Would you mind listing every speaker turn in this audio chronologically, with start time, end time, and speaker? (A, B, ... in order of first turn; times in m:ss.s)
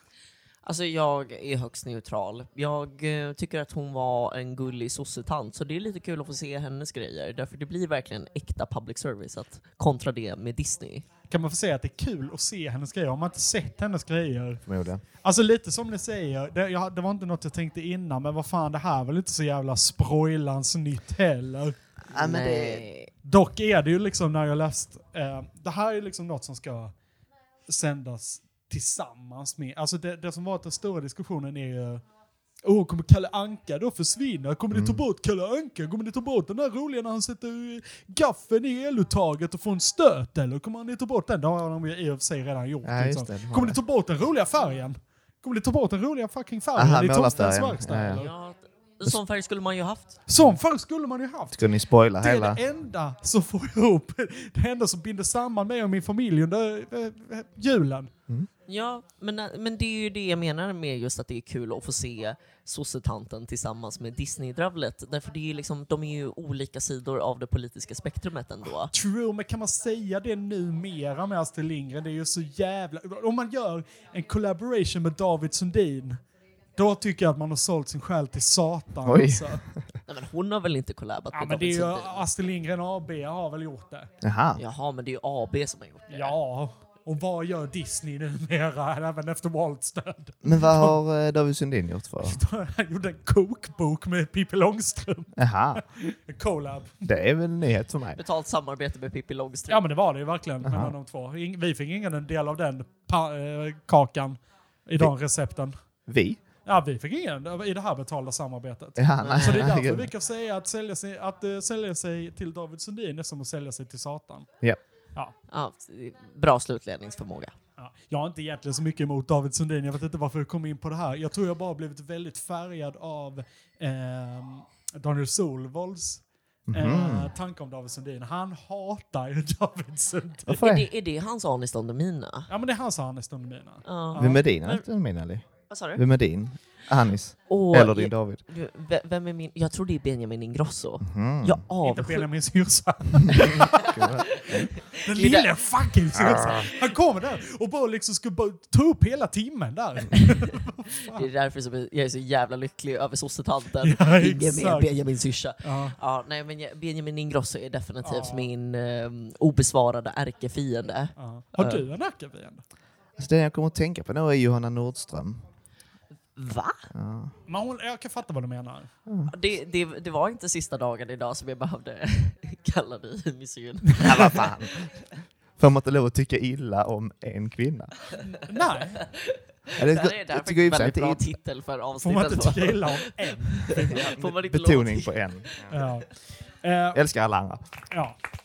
0:00.6-0:11.0 A
0:11.3-0:14.6 B
0:14.6-0:15.0 C
0:15.2-0:21.8 B
0:22.0-0:22.9 C
0:22.1-0:23.1 A
0:23.2-0:26.9 B
0:27.7-0:32.0 B
0:32.6-0:48.3 B
0:34.7-0:35.0 C
0:42.8-0:43.8 C
0:46.7-0:48.2 C
0:48.1-0:50.2 A
0:50.3-0:51.6 B
0:51.5-0:52.6 C
0:52.2-0:58.1 B
0:58.7-1:08.9 A
1:08.9-1:16.2 B
1:16.8-1:19.6 B
1:19.0-1:19.9 C
1:20.1-1:22.2 A
1:21.3-1:24.1 B
1:24.2-1:24.6 C
1:24.6-1:26.3 A
1:26.1-1:31.0 B
1:30.4-1:32.4 C
1:32.2-1:37.1 B
1:35.4-1:35.8 C
1:37.0-1:38.2 C
1:38.1-1:39.8 A
1:39.7-1:45.8 B
1:40.6-1:40.9 C
1:46.1-1:46.4 C
1:46.6-1:54.5 B
1:49.0-1:50.1 C
1:49.2-1:49.7 A
1:55.5-1:57.5 A
1:57.8-2:10.6 B
2:06.7-2:07.3 C
2:10.5-2:10.9 C
2:10.5-2:12.5 A
2:12.5-2:14.4 B
2:13.8-2:14.8 A
2:14.2-2:18.4 C
2:15.7-2:16.0 A
2:17.5-2:22.2 A
2:21.0-2:21.6 C
2:21.8-2:23.9 B
2:23.2-2:24.7 C
2:23.3-2:25.6 A
2:24.9-2:31.3 B
2:26.2-2:26.5 C
2:31.1-2:41.8 A
2:33.8-2:35.0 B
2:35.6-2:36.0 B
2:38.0-2:38.5 B
2:41.2-2:42.6 B
2:43.2-2:45.4 C
2:46.3-2:46.9 A
2:46.9-2:47.3 C
2:47.5-2:48.9 B
2:49.1-2:49.3 C
2:49.3-2:54.3 A
2:53.9-2:54.3 B
2:54.0-2:55.0 C
2:55.6-2:57.9 C
2:58.4-2:59.0 B
2:59.0-3:05.2 A
2:59.8-3:01.2 C
3:02.0-3:04.2 B
3:04.0-3:05.8 C
3:05.7-3:06.1 B
3:06.6-3:07.0 B
3:06.9-3:07.6 C
3:07.9-3:08.2 B